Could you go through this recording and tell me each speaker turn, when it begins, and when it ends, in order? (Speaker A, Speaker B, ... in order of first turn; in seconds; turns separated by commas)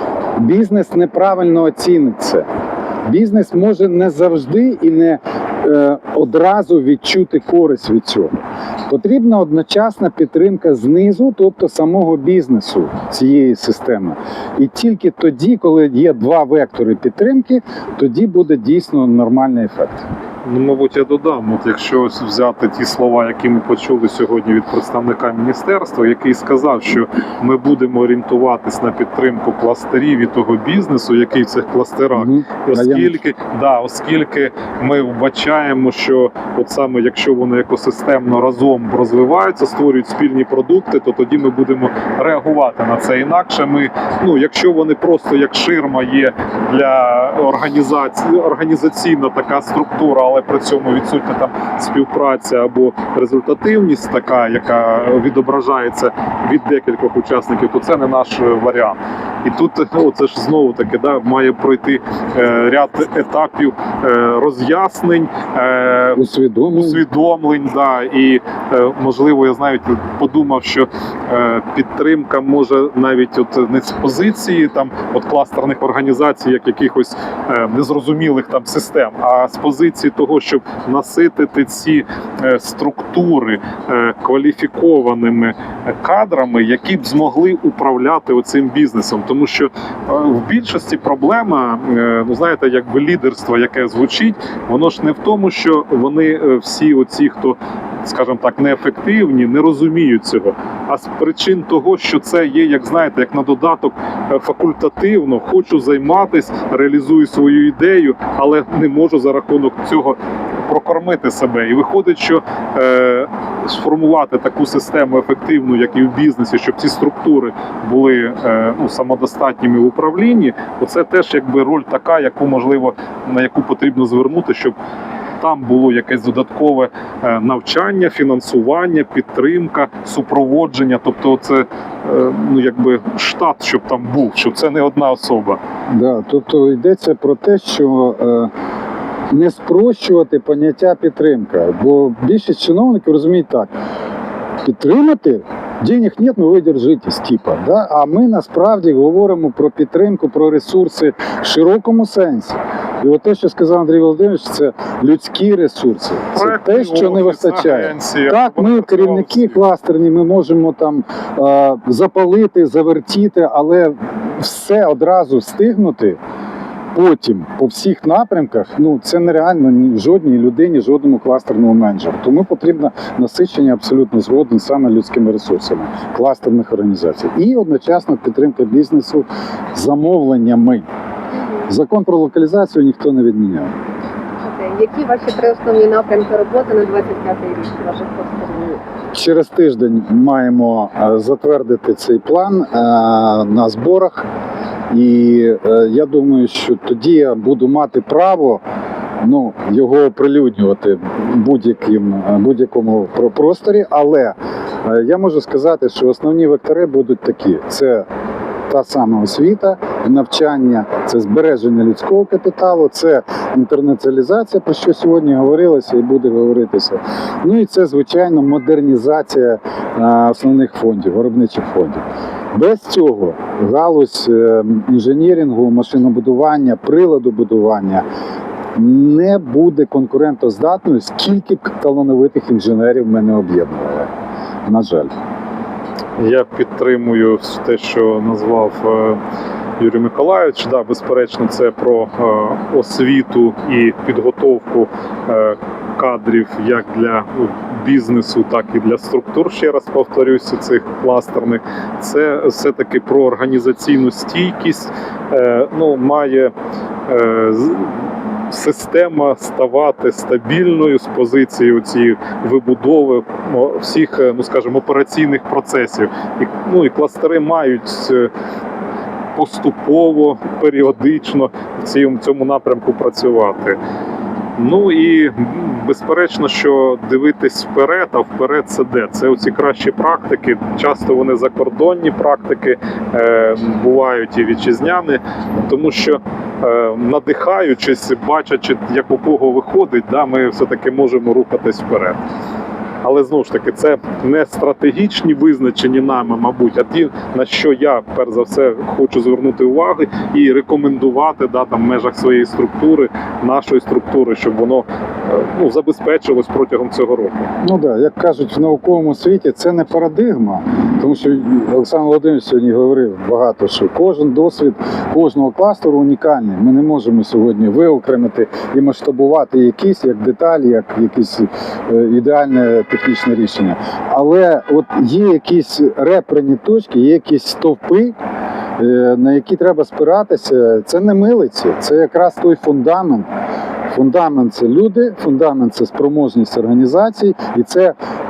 Speaker A: 0.4-2.5, Speaker A: 3.1-8.3, Speaker A: 8.9-20.0, Speaker B: 20.4-66.2, Speaker A: 32.1-33.2, Speaker A: 66.2-67.0, Speaker B: 66.7-124.8, Speaker B: 125.4-135.6, Speaker A: 135.9-138.5, Speaker A: 139.3-143.7, Speaker A: 144.6-166.2, Speaker B: 156.3-159.6, Speaker A: 166.9-180.8, Speaker C: 181.3-181.7, Speaker A: 181.7-183.7, Speaker C: 184.4-188.8, Speaker A: 189.1-194.3, Speaker A: 194.9-198.6, Speaker A: 199.2-208.1, Speaker A: 208.7-222.0, Speaker A: 222.5-228.0, Speaker A: 228.8-234.1, Speaker A: 234.7-235.1, Speaker B: 236.2-239.2, Speaker B: 239.8-256.5, Speaker B: 257.1-268.3, Speaker B: 269.3-273.8, Speaker B: 274.6-292.2, Speaker B: 293.0-307.4, Speaker A: 307.6-328.1, Speaker A: 328.8-333.3, Speaker A: 333.9-337.9